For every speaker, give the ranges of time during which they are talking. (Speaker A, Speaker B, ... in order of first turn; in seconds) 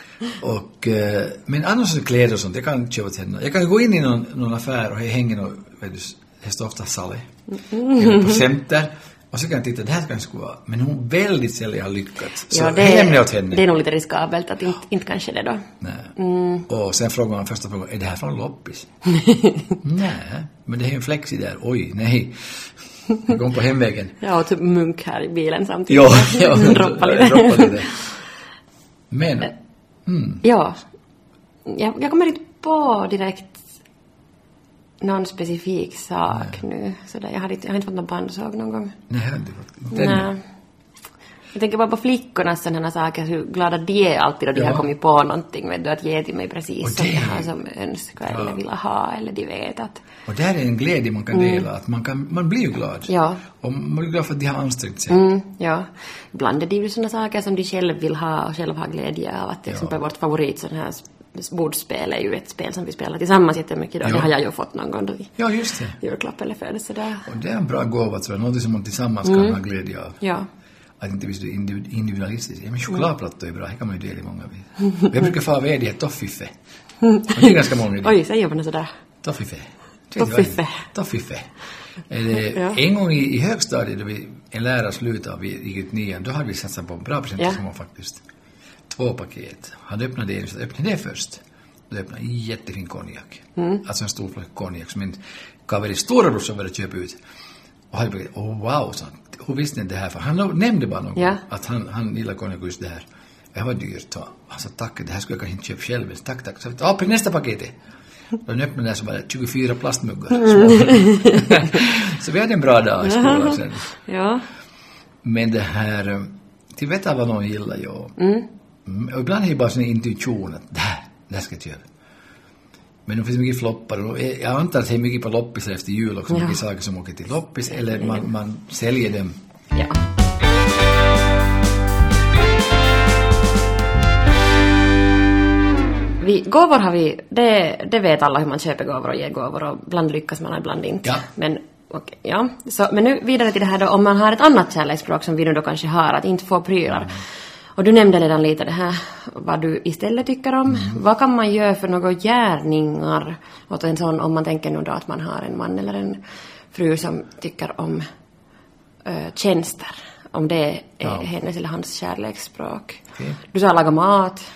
Speaker A: 0.4-7.3, 7.8-13.6, 15.8-16.1, 16.7-18.9, 19.8-22.5, 23.2-24.1, 25.9-27.9, 29.1-30.4, 39.1-40.3, 44.5-44.9, 46.8-47.5, 48.2-48.6, 50.2-55.2, 59.7-59.9, 64.0-64.3, 65.4-66.0, 67.2-70.2, 71.0-76.5, 77.3-78.1, 79.2-81.5, 82.1-88.2, 88.9-97.2, 97.9-107.8, 108.5-113.9, 115.2-118.1, 118.8-121.8, 123.0-129.3, 150.7-151.0
Speaker B: 7.7-8.3, 12.5-16.6, 19.1-19.7, 24.2-28.0, 30.4-30.8, 31.6-33.6, 35.0-39.0, 39.9-40.4, 41.5-50.0, 51.3-51.6, 53.1-53.4, 55.1-65.3, 66.0-67.3, 70.2-70.5, 77.0-78.9, 80.2-80.8, 82.5-82.8, 93.6-93.8, 110.4-111.7, 113.0-114.4, 118.2-118.5, 126.3-126.6, 128.0-128.2, 136.2-147.2, 147.8-156.2, 156.7-158.1, 159.0-164.4